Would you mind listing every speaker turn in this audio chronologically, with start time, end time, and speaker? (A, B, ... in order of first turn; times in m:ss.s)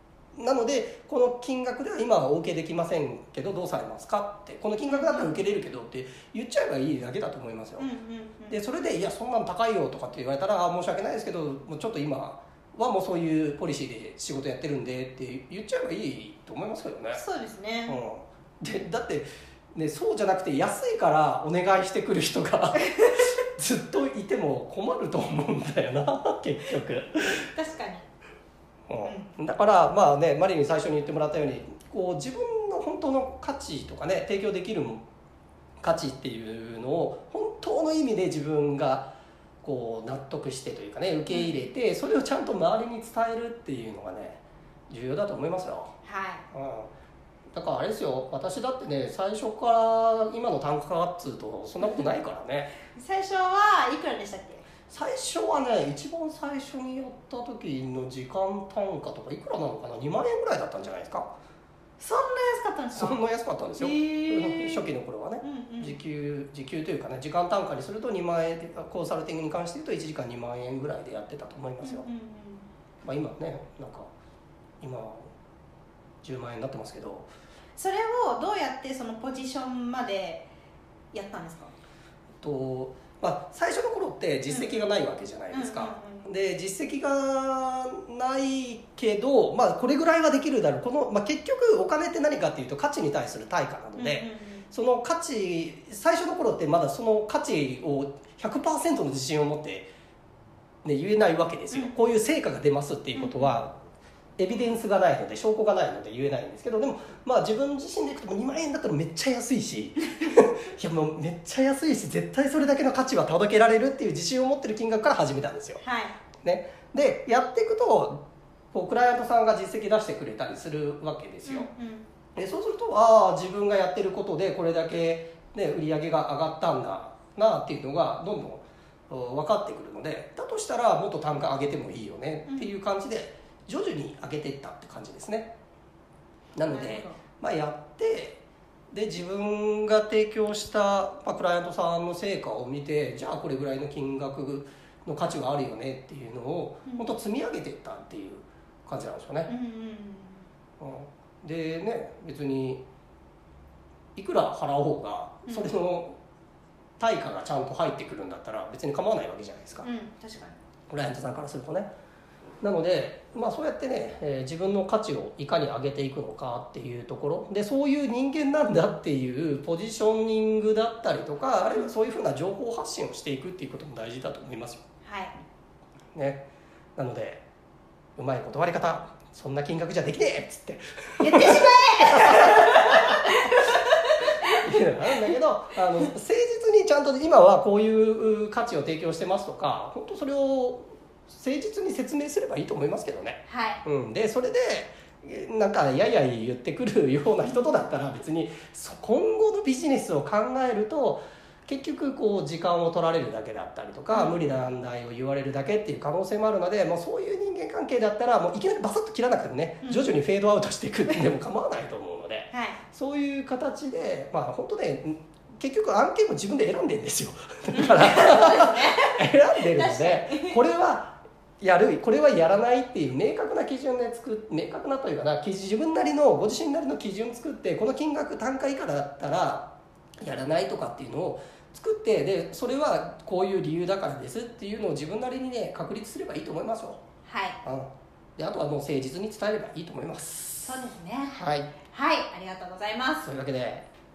0:00.4-0:07.9 A
0:04.8-0:05.4 B
0:07.8-0:08.6 B
0:08.5-0:17.2 A
0:17.1-0:18.0 B
0:17.9-0:27.5 A
0:27.5-0:28.0 B
0:28.9-0:35.0 A
0:29.0-0:29.3 B
0:35.8-0:45.9 A
0:41.3-0:41.7 B
0:46.0-0:46.4 B
0:46.5-0:46.9 A
0:47.5-0:52.7 A
0:52.9-0:54.6 B
0:54.9-1:01.3 A
1:02.0-1:03.2 B
1:02.9-1:12.1 A
1:03.8-1:04.9 B
1:05.4-1:06.0 B
1:11.8-1:12.7 B
1:13.0-1:14.1 A
1:14.8-1:15.3 A
1:16.2-1:17.3 A
1:17.8-1:20.5 B
1:21.1-1:21.7 B
1:22.4-1:39.9 A
1:24.5-1:24.8 B
1:25.5-1:26.3 B
1:33.9-1:34.7 B
1:40.8-1:43.7 A
1:41.7-1:42.0 B
1:43.1-1:43.5 B
1:44.4-1:55.8 A
1:55.8-1:56.1 B
1:56.4-1:58.2 A
1:58.7-2:01.7 A
2:01.4-2:02.1 B
2:02.3-2:15.5 A
2:12.5-2:12.7 B
2:16.6-2:29.5 A
2:16.7-2:17.2 B
2:26.9-2:27.1 B
2:29.5-2:30.4 B
2:30.8-2:32.8 A
2:34.2-2:36.2 A
2:35.5-2:35.7 B
2:37.0-2:39.9 A
2:39.8-2:40.6 B
2:40.9-2:41.9 A
2:42.6-2:54.8 A
2:55.0-2:55.3 B
2:56.1-2:56.4 A
2:57.0-2:57.4 A
2:58.2-3:03.6 A
3:01.2-3:04.3 B
3:04.4-3:57.0 A
3:13.5-3:13.8 B
3:17.4-3:17.9 B
3:24.1-3:24.6 B
3:29.8-3:30.1 B
3:32.5-3:32.8 B
3:37.7-3:40.6 B
3:57.2-3:57.6 B
3:57.6-4:00.8 A
4:00.6-4:01.4 B
4:01.3-4:01.7 A
4:01.9-4:03.3 B
4:03.2-4:03.9 A